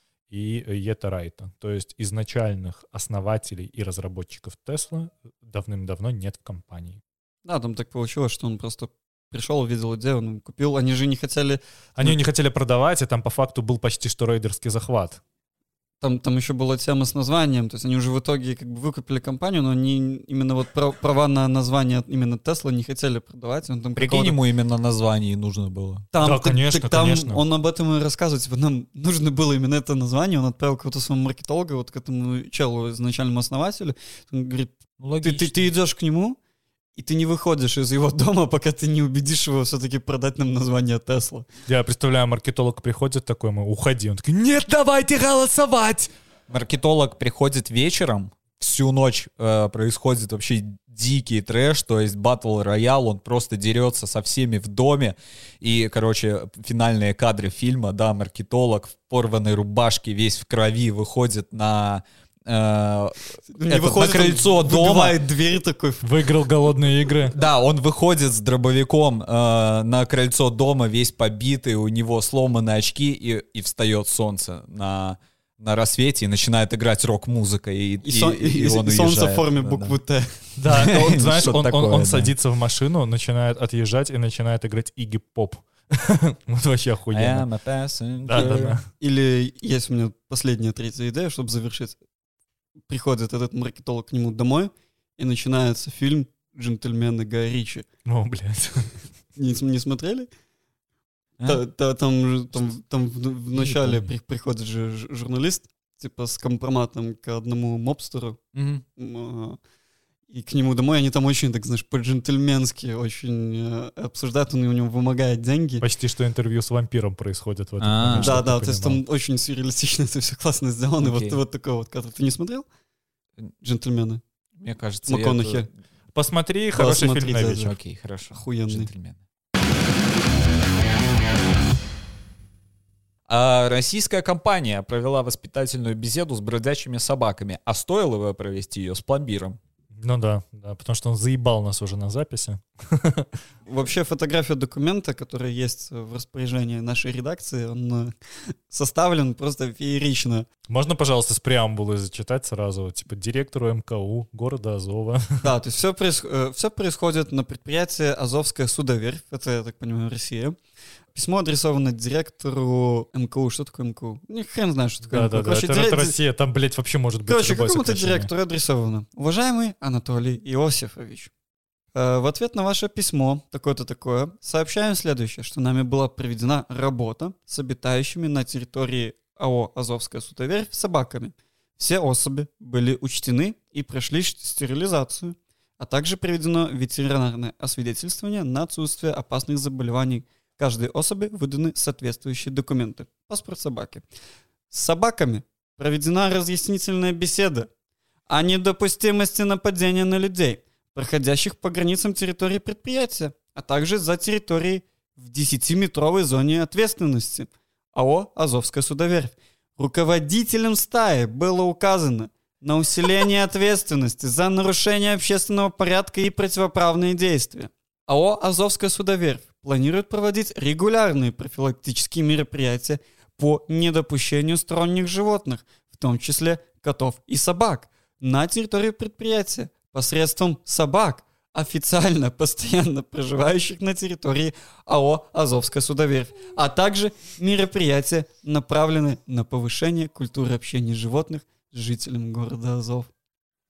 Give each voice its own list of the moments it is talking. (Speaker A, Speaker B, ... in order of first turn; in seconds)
Speaker A: 0.3-7.0, 12.0-15.2, 26.2-27.4, 41.7-46.1, 66.0-67.4, 80.6-87.5, 88.2-88.8, 98.0-98.9, 115.8-119.0, 126.1-127.7, 140.0-143.3, 150.7-155.5, 165.1-168.3
Speaker B: 7.4-12.2, 16.0-24.4, 26.1-36.4, 37.0-41.5, 63.5-66.2, 78.0-80.4, 88.3-92.0, 92.9-97.8, 99.3-100.3, 101.4-108.4, 109.0-109.6, 110.3-115.8, 118.1-122.7, 123.6-124.2, 125.0-125.7, 126.7-127.7, 128.3-128.9, 143.7-150.5, 155.4-160.6, 161.1-166.2, 167.3-171.3, 171.9-194.0, 194.7-197.7, 198.3-243.1
Speaker C: 24.0-26.1, 35.0-35.6, 46.5-65.2, 67.3-80.0, 80.7-82.3, 87.1-88.8, 103.5-104.1, 108.5-108.8, 117.8-118.4, 121.0-121.4, 124.6-125.7, 127.5-129.2, 133.3-139.6